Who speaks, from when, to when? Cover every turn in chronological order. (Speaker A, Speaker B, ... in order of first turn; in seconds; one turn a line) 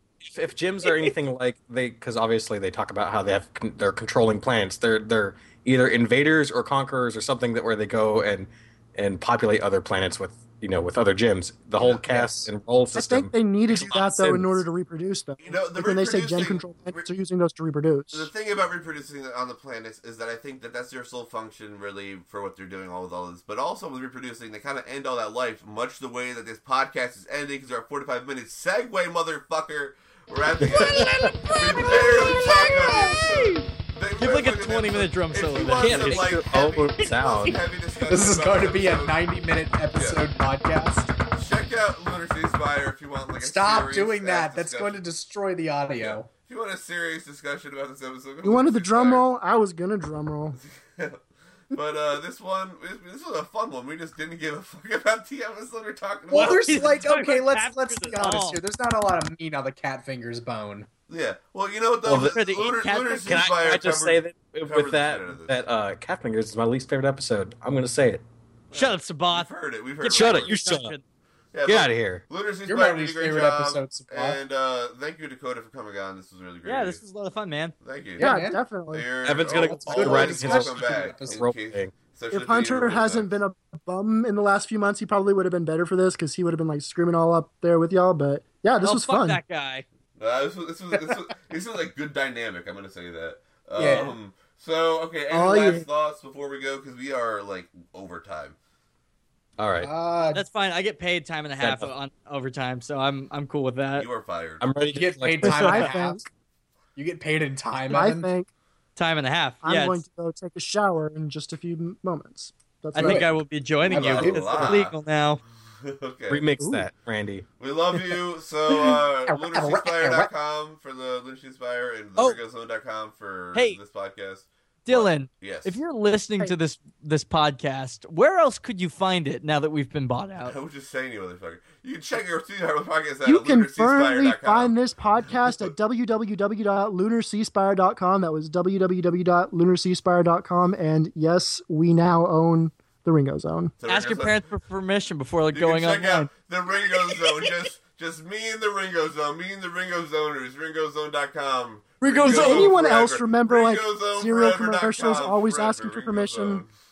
Speaker A: 0.2-14.6
Speaker B: 11.8-12.5
Speaker C: 12.9-18.3
Speaker D: 15.4-17.0
Speaker D: 18.1-39.2
Speaker E: 30.7-31.6
Speaker A: 30.8-31.3
Speaker E: 32.4-33.6
Speaker E: 34.2-36.4
Speaker A: 35.8-37.6
Speaker B: 38.1-41.1
Speaker D: 39.9-40.2
Speaker D: 41.3-45.0
Speaker B: 43.4-46.3
Speaker D: 46.0-49.2
Speaker C: 48.4-50.6
Speaker D: 50.6-56.9
Speaker E: 56.3-58.6
Speaker B: 56.3-60.9
Speaker D: 61.1-65.6
Speaker A: 62.0-62.7
Speaker E: 62.2-63.4
Speaker A: 63.2-68.2
Speaker D: 68.7-70.5
Speaker E: 68.7-71.0
Speaker A: 70.1-71.0
Speaker D: 71.5-77.0
Speaker A: 71.7-72.2
Speaker B: 72.7-74.4
Speaker E: 76.7-77.8
Speaker D: 77.8-78.3
Speaker B: 78.2-78.6
Speaker C: 78.2-79.1
Speaker D: 78.9-83.3
Speaker A: 79.2-82.0
Speaker B: 79.5-81.5
Speaker C: 82.3-89.4
Speaker E: 88.8-89.8
Speaker D: 90.2-98.6
Speaker B: 93.8-94.2
Speaker C: 95.3-95.9
Speaker A: 99.6-99.9
Speaker B: 99.8-100.4
Speaker E: 100.3-104.1
Speaker A: 101.6-101.9
Speaker D: 104.0-104.6
Speaker A: 104.6-105.9
Speaker B: 104.9-106.2
Speaker C: 105.4-106.3
Speaker B: 107.0-108.3
Speaker C: 107.9-108.5
Speaker E: 109.0-110.0
Speaker C: 109.6-113.3
Speaker E: 113.0-115.4
Speaker B: 113.0-113.3
Speaker D: 113.8-115.0
Speaker B: 113.9-114.8
Speaker D: 115.8-116.5
Speaker A: 116.3-117.5
Speaker C: 116.6-116.9
Speaker D: 117.6-125.8
Speaker B: 118.7-120.3
Speaker E: 124.9-130.6
Speaker D: 130.4-134.7
Speaker C: 133.2-143.8
Speaker D: 135.4-135.7
Speaker D: 143.8-144.4
Speaker E: 143.9-146.3
Speaker D: 145.5-156.7
Speaker C: 152.0-156.6
Speaker E: 152.1-152.7